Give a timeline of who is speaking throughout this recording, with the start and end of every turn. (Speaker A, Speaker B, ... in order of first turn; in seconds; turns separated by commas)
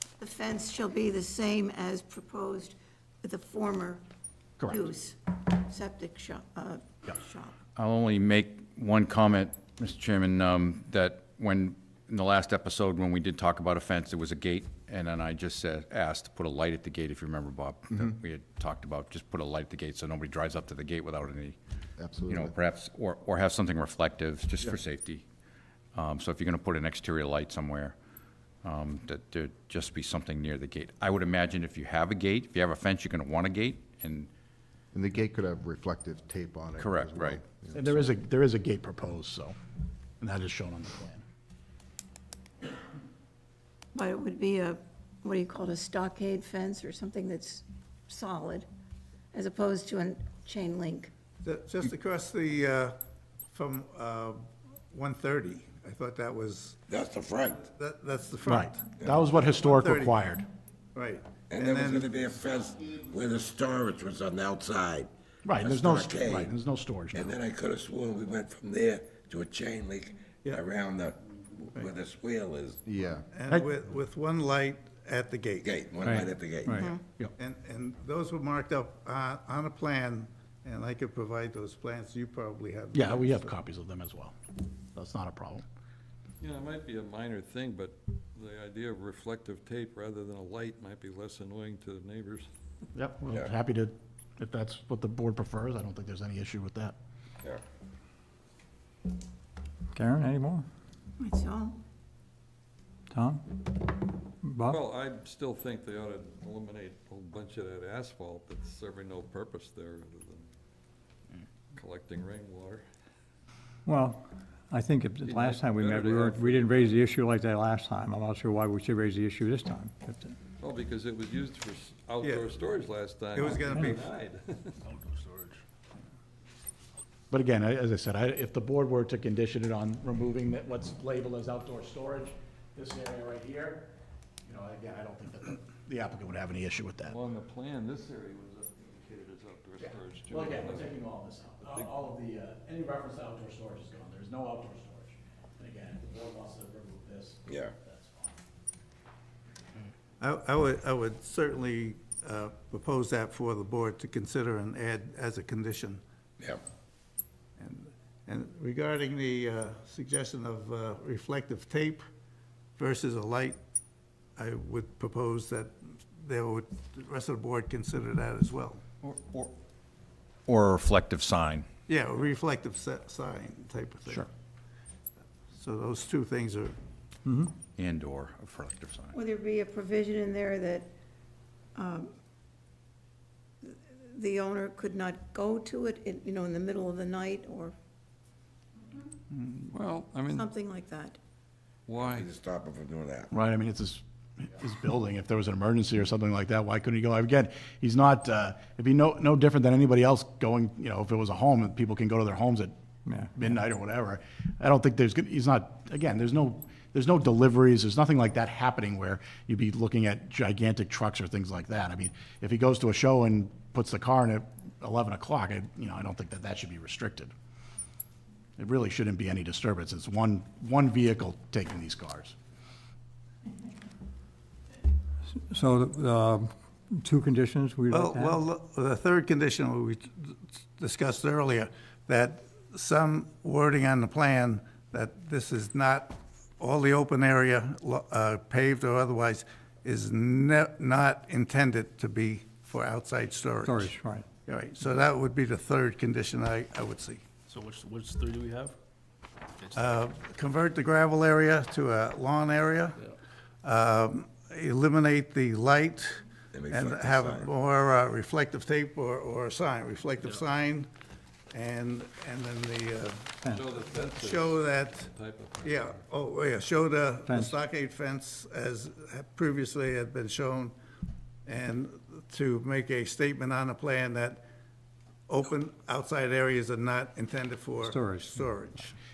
Speaker A: 0.2-4.0, Speaker B: 4.6-4.9, Speaker A: 4.7-7.6, Speaker C: 7.8-21.6, Speaker D: 22.0-22.5, Speaker C: 22.3-25.2, Speaker C: 25.9-28.0, Speaker C: 28.6-34.3, Speaker D: 34.9-38.1, Speaker C: 36.8-37.4, Speaker B: 37.7-39.5, Speaker B: 40.2-41.2, Speaker A: 43.9-48.7, Speaker A: 49.3-51.1, Speaker E: 51.4-53.0, Speaker E: 53.5-56.8, Speaker F: 56.9-57.7, Speaker E: 57.6-60.1, Speaker B: 58.5-60.4, Speaker E: 60.9-62.1, Speaker F: 61.5-66.5, Speaker B: 65.4-67.3, Speaker F: 67.1-72.8, Speaker D: 72.8-73.3, Speaker E: 73.3-75.7, Speaker F: 75.6-76.8, Speaker B: 76.1-77.3, Speaker E: 77.4-83.5, Speaker B: 82.9-84.3, Speaker B: 84.9-85.6, Speaker G: 86.4-92.5, Speaker B: 92.9-96.9, Speaker H: 99.9-100.7, Speaker A: 101.2-101.8, Speaker H: 103.1-103.6, Speaker H: 104.4-104.8, Speaker G: 104.6-110.5, Speaker G: 111.7-112.8, Speaker H: 113.8-120.3, Speaker G: 115.2-117.0, Speaker G: 120.6-124.7, Speaker E: 123.3-124.0, Speaker I: 124.8-125.6, Speaker B: 127.3-133.9, Speaker B: 134.4-137.2, Speaker G: 137.1-141.0, Speaker B: 139.8-148.4, Speaker F: 147.5-147.7, Speaker E: 150.2-156.0, Speaker E: 157.6-162.0, Speaker E: 162.8-163.6, Speaker E: 164.4-168.8, Speaker C: 169.0-169.5, Speaker C: 170.5-171.7, Speaker E: 171.9-174.2, Speaker E: 175.5-176.7, Speaker H: 177.2-177.5, Speaker C: 177.8-179.2, Speaker A: 179.1-180.9, Speaker A: 181.7-182.1, Speaker A: 183.6-187.8, Speaker G: 189.7-190.5, Speaker A: 190.3-191.2, Speaker G: 191.9-192.3, Speaker F: 192.0-193.3, Speaker B: 193.3-202.7, Speaker H: 203.1-203.3, Speaker B: 203.3-217.3, Speaker B: 218.6-222.3, Speaker H: 225.3-228.4, Speaker E: 227.9-243.9, Speaker H: 243.6-244.3, Speaker E: 244.5-247.2, Speaker I: 247.5-248.8, Speaker E: 249.8-252.9, Speaker E: 253.6-260.9, Speaker F: 256.5-257.5, Speaker E: 261.5-263.3, Speaker H: 263.4-263.7, Speaker G: 263.5-266.0, Speaker E: 264.0-265.1, Speaker E: 265.6-270.8, Speaker H: 267.3-267.6, Speaker E: 271.4-274.5, Speaker E: 275.3-278.9, Speaker H: 277.8-278.4